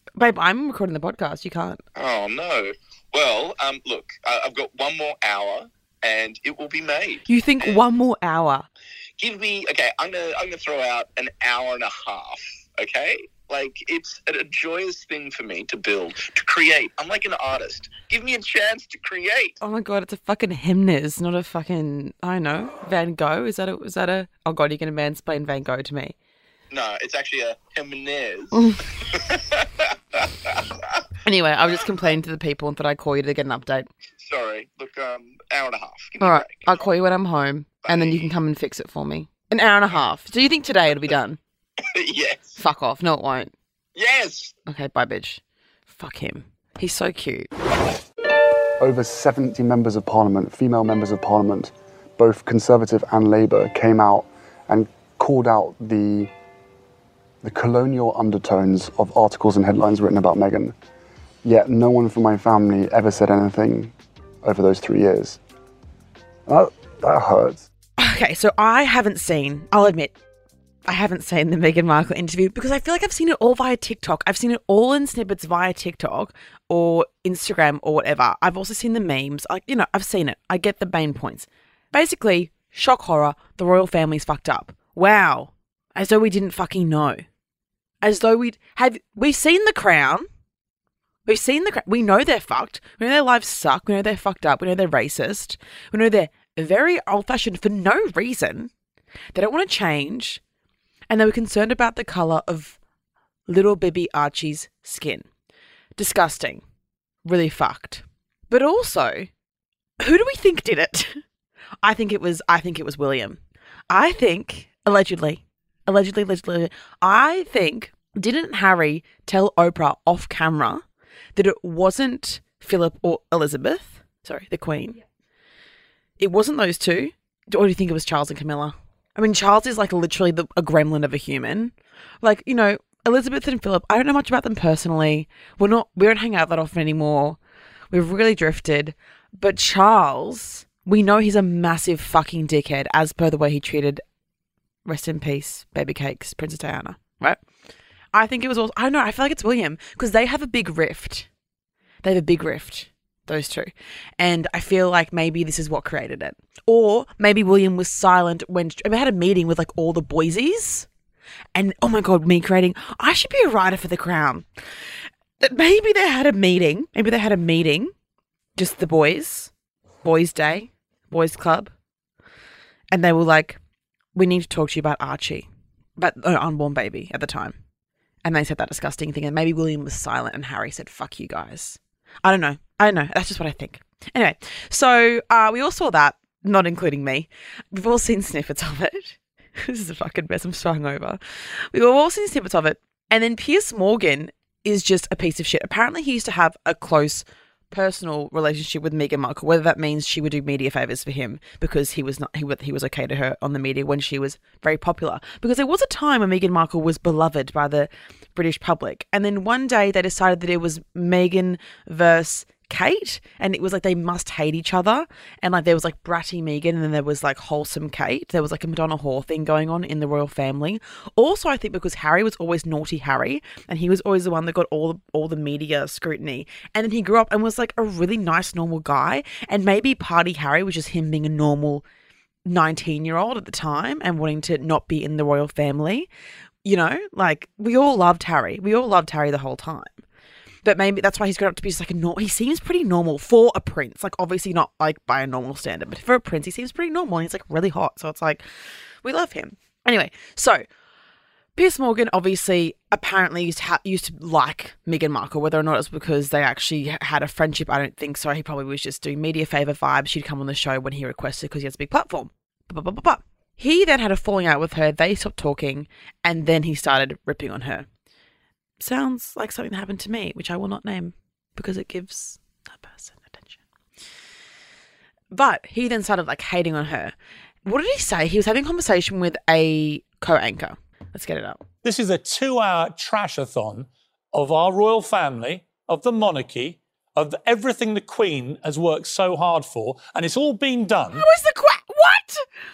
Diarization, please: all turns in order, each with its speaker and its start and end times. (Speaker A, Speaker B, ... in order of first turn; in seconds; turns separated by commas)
Speaker A: 0.2-1.8, Speaker B: 1.9-7.8, Speaker A: 7.3-8.7, Speaker B: 9.2-19.6, Speaker A: 19.6-26.1, Speaker B: 26.7-30.8, Speaker A: 28.5-28.8, Speaker A: 31.2-33.9, Speaker B: 34.2-36.8, Speaker A: 36.2-41.4, Speaker B: 37.9-38.3, Speaker B: 41.9-42.6, Speaker A: 42.6-43.5, Speaker B: 44.0-44.6, Speaker A: 44.7-47.5, Speaker C: 48.8-56.3, Speaker C: 57.4-60.7, Speaker C: 61.4-65.4, Speaker C: 66.5-67.7, Speaker A: 68.0-70.2, Speaker A: 70.8-87.2, Speaker A: 88.0-90.3, Speaker A: 91.2-98.7, Speaker A: 99.3-100.4, Speaker A: 101.1-102.8, Speaker A: 103.5-105.2, Speaker A: 106.0-106.6, Speaker A: 107.2-109.3, Speaker A: 110.0-111.2, Speaker A: 111.8-120.8, Speaker A: 121.3-125.0, Speaker A: 126.2-137.4, Speaker A: 137.9-144.0, Speaker A: 144.8-147.4, Speaker A: 148.1-151.3, Speaker A: 152.0-160.9, Speaker A: 161.5-164.4, Speaker A: 165.4-167.9, Speaker A: 168.6-169.5, Speaker A: 170.0-171.7, Speaker A: 172.9-173.6, Speaker A: 174.1-175.5, Speaker A: 176.0-177.6, Speaker A: 178.2-231.8, Speaker A: 232.4-236.1, Speaker A: 236.6-240.0, Speaker A: 240.6-248.4, Speaker A: 249.0-250.6, Speaker A: 251.6-267.9, Speaker A: 268.8-273.6, Speaker A: 275.3-277.1, Speaker A: 277.6-281.6, Speaker D: 281.8-291.2, Speaker A: 291.1-292.4